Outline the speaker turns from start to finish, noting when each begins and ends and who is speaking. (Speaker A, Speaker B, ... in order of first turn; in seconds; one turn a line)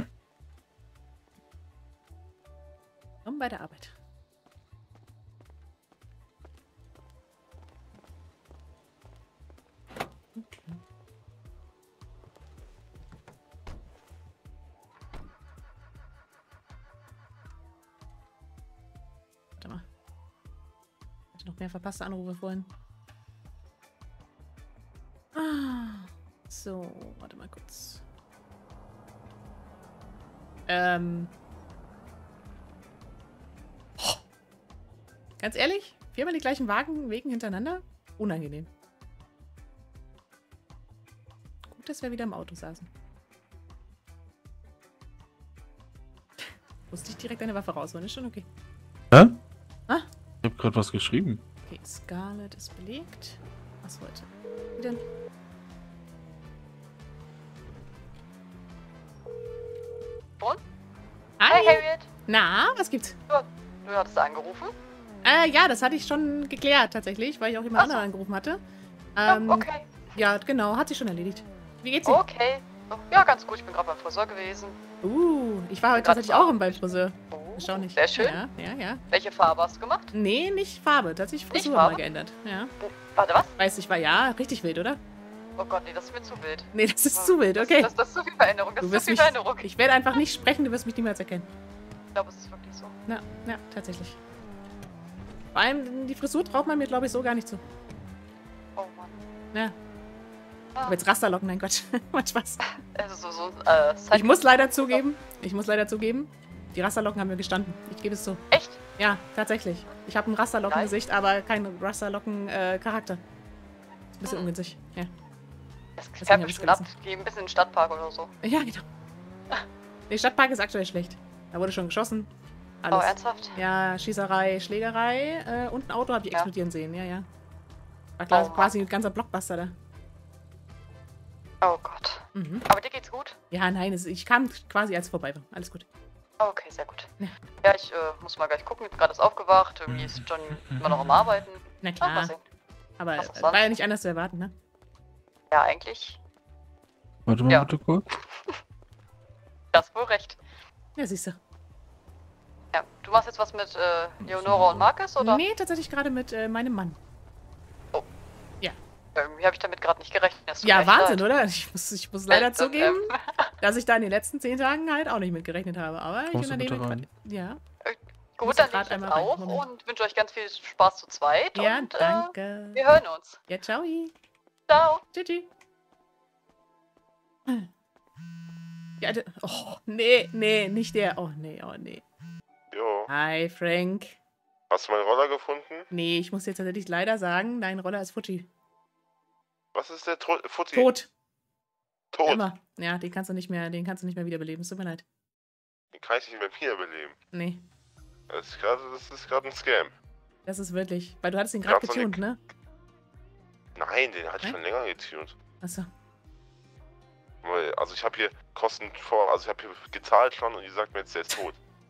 Speaker A: 3.2-4.0
Speaker A: 10.3-10.8
Speaker A: 19.6-19.8
Speaker A: 21.3-22.7
Speaker A: 25.3-28.0
Speaker A: 30.7-31.3
Speaker A: 35.4-38.7
Speaker A: 41.7-42.9
Speaker A: 46.9-48.5
Speaker B: 49.1-49.4
Speaker B: 50.4-51.4
Speaker A: 51.7-55.0
Speaker A: 61.4-63.2
Speaker C: 61.5-62.1
Speaker C: 63.3-64.7
Speaker A: 65.2-68.6
Speaker C: 67.8-68.0
Speaker A: 69.2-72.2
Speaker C: 69.3-70.0
Speaker C: 72.0-74.7
Speaker A: 75.0-79.0
Speaker C: 75.9-78.4
Speaker C: 79.1-80.1
Speaker A: 80.1-82.7
Speaker C: 81.5-82.0
Speaker C: 82.8-83.5
Speaker A: 83.6-85.0
Speaker C: 85.6-89.7
Speaker A: 86.7-87.9
Speaker A: 88.8-91.5
Speaker C: 92.1-93.0
Speaker A: 93.1-94.2
Speaker A: 95.5-97.6
Speaker C: 98.8-99.2
Speaker A: 100.8-102.7
Speaker C: 102.9-105.0
Speaker A: 104.1-108.4
Speaker C: 108.5-108.8
Speaker A: 109.0-113.2
Speaker C: 110.7-110.9
Speaker A: 114.2-115.1
Speaker C: 116.0-118.3
Speaker A: 116.2-116.9
Speaker A: 118.4-118.8
Speaker A: 120.1-122.3
Speaker A: 122.8-127.3
Speaker C: 122.9-123.6
Speaker A: 128.2-129.8
Speaker C: 128.3-128.7
Speaker C: 131.6-133.3
Speaker A: 132.3-132.7
Speaker A: 133.5-135.9
Speaker C: 136.4-137.1
Speaker C: 137.6-142.4
Speaker B: 139.9-141.2
Speaker A: 141.8-142.3
Speaker A: 143.0-144.5
Speaker C: 143.2-143.7
Speaker C: 145.5-146.2
Speaker B: 147.2-148.1
Speaker C: 149.7-150.4
Speaker A: 151.0-151.4
Speaker C: 152.7-155.4
Speaker B: 154.3-154.9
Speaker A: 155.2-157.0
Speaker C: 159.1-161.3
Speaker A: 160.6-167.6
Speaker C: 162.3-163.3
Speaker B: 166.3-167.1
Speaker C: 167.8-173.4
Speaker A: 168.4-169.7
Speaker A: 171.5-172.8
Speaker A: 173.5-174.1
Speaker C: 174.7-175.0
Speaker A: 175.1-175.5
Speaker A: 179.0-182.0
Speaker D: 182.7-183.1
Speaker A: 183.1-184.2
Speaker D: 184.7-185.8
Speaker A: 185.9-188.5
Speaker D: 189.7-190.9
Speaker A: 190.7-191.1
Speaker D: 192.1-192.4
Speaker A: 192.2-195.0
Speaker D: 195.9-197.2
Speaker A: 197.3-197.6
Speaker D: 198.3-199.9
Speaker A: 200.4-202.4
Speaker D: 201.6-202.2
Speaker D: 203.8-205.3
Speaker A: 205.6-205.9
Speaker D: 207.4-211.6